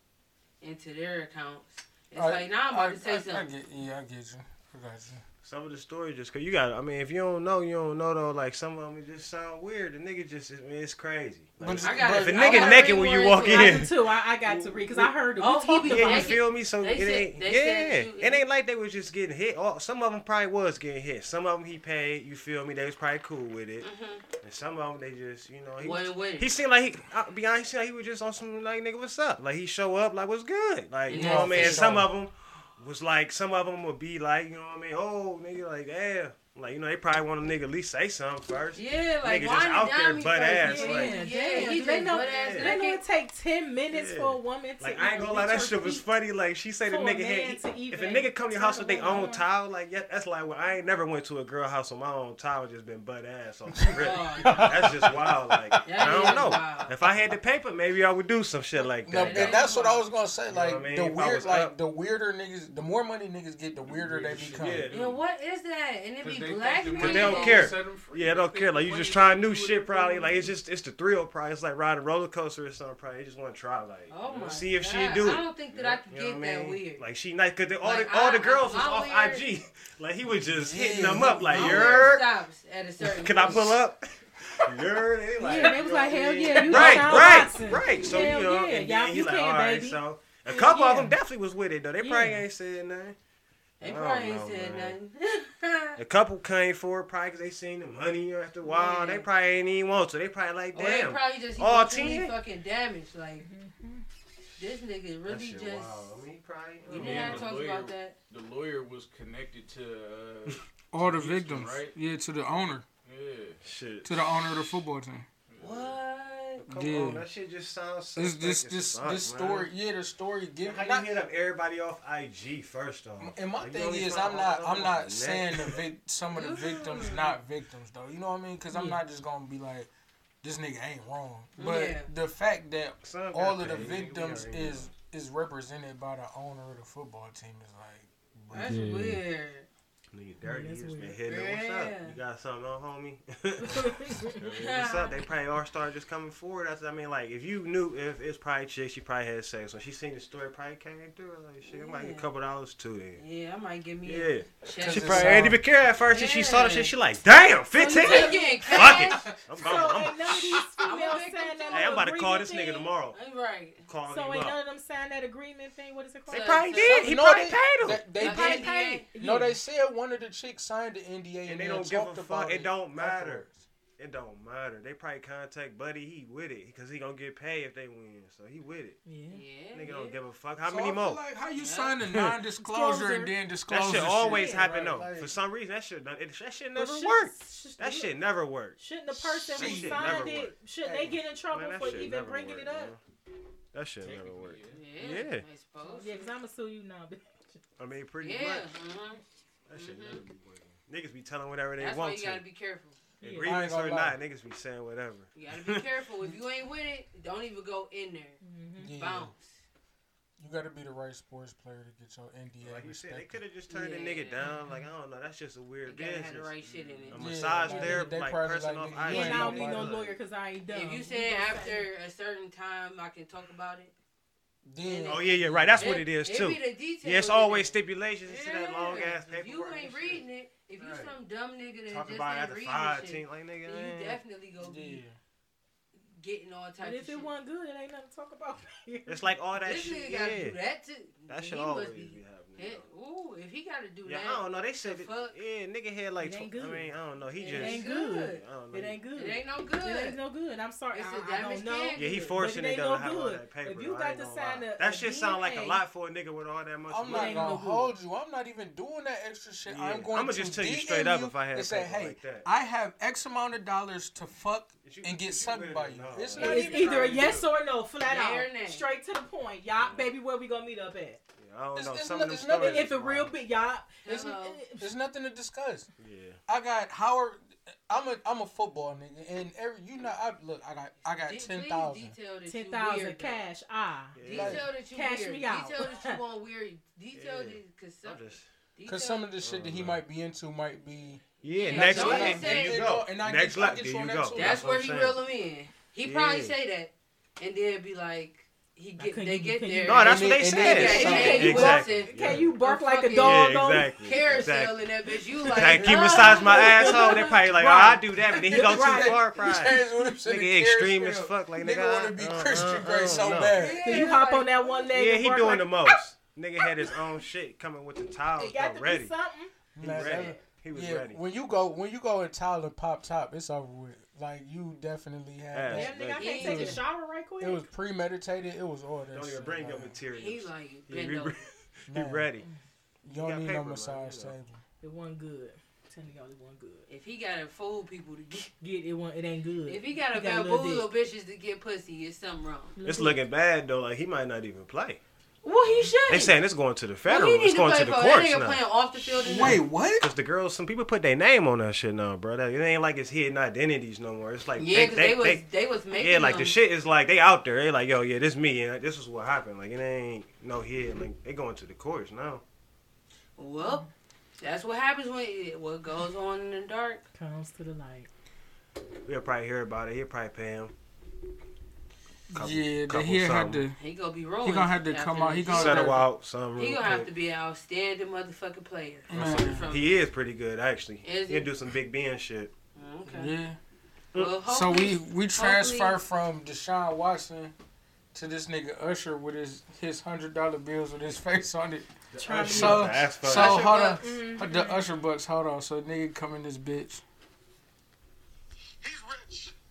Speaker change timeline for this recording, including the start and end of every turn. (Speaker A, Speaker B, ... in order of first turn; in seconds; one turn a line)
Speaker A: 0.6-3.5
Speaker B: 2.1-5.2
Speaker C: 5.4-15.1
Speaker B: 11.6-13.0
Speaker A: 11.8-13.9
Speaker D: 13.4-16.4
Speaker A: 15.4-18.4
Speaker C: 15.8-23.9
Speaker A: 23.8-24.2
Speaker C: 24.4-42.7
Speaker A: 25.8-26.6
Speaker A: 31.1-31.9
Speaker B: 31.1-32.1
Speaker A: 38.7-43.0
Speaker D: 40.6-46.1
Speaker C: 43.9-59.6
Speaker D: 46.9-49.4
Speaker B: 53.8-55.8
Speaker A: 54.0-54.8
Speaker A: 55.8-57.0
Speaker B: 59.0-64.9
Speaker A: 59.1-60.0
Speaker C: 60.5-61.7
Speaker E: 63.8-65.2
Speaker C: 64.6-65.1
Speaker A: 64.9-67.7
Speaker E: 66.2-70.6
Speaker C: 67.0-82.2
Speaker A: 74.1-77.0
Speaker E: 74.2-74.8
Speaker A: 77.8-79.5
Speaker B: 80.4-82.1
Speaker A: 80.9-83.8
Speaker C: 83.0-93.2
Speaker D: 85.4-91.1
Speaker A: 86.7-88.0
Speaker D: 92.0-92.4
Speaker A: 93.8-96.0
Speaker C: 93.8-95.0
Speaker C: 96.0-102.3
Speaker A: 98.6-99.3
Speaker A: 100.7-103.5
Speaker D: 103.4-104.0
Speaker A: 104.6-106.0
Speaker C: 105.3-107.5
Speaker A: 106.9-108.2
Speaker E: 106.9-112.0
Speaker B: 110.9-112.8
Speaker E: 112.5-113.6
Speaker C: 113.6-114.7
Speaker B: 114.0-115.3
Speaker E: 115.5-116.0
Speaker A: 115.6-116.6
Speaker C: 116.6-119.7
Speaker B: 116.7-117.2
Speaker B: 118.2-121.1
Speaker C: 120.6-125.8
Speaker B: 123.2-129.9
Speaker A: 126.3-127.3
Speaker D: 128.7-129.0
Speaker B: 130.4-139.1
Speaker A: 131.6-132.1
Speaker C: 133.0-134.9
Speaker C: 138.5-138.8
Speaker A: 138.5-139.7
Speaker C: 140.1-153.2
Speaker D: 140.4-141.2
Speaker A: 141.2-142.2
Speaker D: 143.6-144.4
Speaker A: 144.4-145.2
Speaker A: 151.7-152.3
Speaker A: 153.2-155.5
Speaker C: 154.0-160.7
Speaker B: 154.8-155.6
Speaker A: 156.1-156.9
Speaker D: 157.8-162.9
Speaker A: 157.8-159.4
Speaker A: 160.8-162.0
Speaker C: 161.7-163.2
Speaker A: 163.1-163.9
Speaker C: 163.9-164.6
Speaker D: 164.1-166.6
Speaker A: 166.3-167.1
Speaker C: 166.3-169.0
Speaker B: 166.8-173.6
Speaker A: 168.1-169.1
Speaker D: 169.1-169.6
Speaker C: 171.4-173.4
Speaker C: 174.0-179.0
Speaker D: 179.1-179.4
Speaker A: 179.3-180.2
Speaker C: 179.7-181.2
Speaker B: 180.6-185.3
Speaker A: 181.5-182.0
Speaker C: 182.0-182.3
Speaker D: 182.6-183.3
Speaker C: 183.7-190.5
Speaker E: 184.1-185.1
Speaker D: 184.3-184.7
Speaker D: 186.8-188.1
Speaker D: 188.8-192.9
Speaker B: 189.5-190.3
Speaker B: 190.8-191.2
Speaker C: 191.5-193.0
Speaker C: 193.7-195.4
Speaker E: 194.0-194.9
Speaker A: 194.7-196.3
Speaker D: 195.8-197.6
Speaker C: 197.8-198.7
Speaker A: 198.2-199.2
Speaker C: 199.7-202.4
Speaker A: 199.7-200.2
Speaker A: 201.8-203.0
Speaker D: 203.2-203.5
Speaker C: 203.2-205.8
Speaker B: 203.4-204.2
Speaker A: 205.3-209.6
Speaker D: 208.4-208.9
Speaker B: 208.8-209.3
Speaker B: 210.4-213.4
Speaker C: 212.6-216.5
Speaker A: 213.7-214.6
Speaker D: 214.4-214.8
Speaker A: 215.8-218.0
Speaker E: 216.6-217.2
Speaker C: 217.1-220.2
Speaker B: 217.2-220.0
Speaker D: 219.0-221.8
Speaker A: 220.7-223.9
Speaker B: 224.6-226.0
Speaker A: 224.8-225.2
Speaker C: 225.1-230.2
Speaker A: 225.8-235.0
Speaker C: 231.9-234.2
Speaker B: 234.6-235.2
Speaker A: 235.9-237.3
Speaker D: 236.8-239.3
Speaker C: 239.1-240.6
Speaker A: 239.6-245.3
Speaker C: 241.3-242.9
Speaker C: 244.0-249.0
Speaker D: 246.2-246.9
Speaker A: 247.3-248.4
Speaker D: 247.5-255.8
Speaker A: 249.1-250.2
Speaker A: 250.9-252.3
Speaker C: 251.9-257.6
Speaker B: 256.9-267.1
Speaker D: 257.1-257.9
Speaker C: 259.6-262.4
Speaker C: 264.8-267.2
Speaker D: 266.4-271.2
Speaker E: 266.9-267.5
Speaker A: 268.0-268.9
Speaker C: 269.8-270.1
Speaker C: 271.4-273.3
Speaker B: 271.7-273.0
Speaker D: 272.5-274.8
Speaker A: 274.0-274.6
Speaker B: 274.1-275.9
Speaker C: 276.0-276.4
Speaker B: 276.5-282.1
Speaker A: 281.2-283.4
Speaker D: 282.5-284.2
Speaker C: 284.1-284.7
Speaker A: 284.2-289.3
Speaker B: 284.3-284.6
Speaker D: 284.8-286.2
Speaker C: 287.1-288.5
Speaker B: 288.9-295.0
Speaker C: 289.4-290.0
Speaker C: 291.4-295.2
Speaker A: 291.5-292.9
Speaker A: 294.3-307.3
Speaker C: 296.0-296.5
Speaker D: 299.0-303.9
Speaker C: 299.9-302.5
Speaker B: 300.1-301.8
Speaker C: 303.2-304.8
Speaker C: 305.4-314.1
Speaker B: 305.6-314.1
Speaker D: 305.7-309.3
Speaker A: 313.1-314.7
Speaker D: 313.7-315.9
Speaker C: 314.9-319.1
Speaker D: 318.4-319.5
Speaker B: 319.8-326.8
Speaker C: 319.8-321.2
Speaker C: 325.5-326.7
Speaker D: 325.7-327.6
Speaker A: 326.1-326.8
Speaker B: 327.4-330.0
Speaker C: 329.1-332.4
Speaker A: 330.1-331.3
Speaker B: 331.9-332.3
Speaker B: 333.0-334.6
Speaker C: 333.1-334.3
Speaker D: 334.8-336.9
Speaker A: 336.9-338.5
Speaker D: 338.6-340.9
Speaker A: 339.6-342.7
Speaker D: 342.8-343.2
Speaker C: 342.8-345.0
Speaker A: 345.4-346.3
Speaker C: 345.7-348.6
Speaker A: 347.1-349.6
Speaker B: 349.1-350.1
Speaker C: 349.4-355.4
Speaker A: 354.6-356.6
Speaker C: 355.9-362.4
Speaker A: 363.4-363.8
Speaker D: 363.6-363.9
Speaker A: 364.4-367.0
Speaker D: 367.1-368.1
Speaker C: 369.0-370.7
Speaker B: 372.3-373.8
Speaker C: 372.3-373.6
Speaker A: 373.8-376.0
Speaker B: 374.4-376.1
Speaker C: 375.5-377.1
Speaker A: 376.6-380.1
Speaker B: 379.1-379.7
Speaker C: 379.1-382.5
Speaker A: 381.0-381.5
Speaker A: 382.8-383.3
Speaker B: 383.1-383.6
Speaker A: 384.1-386.0
Speaker B: 384.4-387.5
Speaker B: 388.1-397.0
Speaker C: 392.1-393.7
Speaker D: 392.1-394.8
Speaker A: 393.2-394.0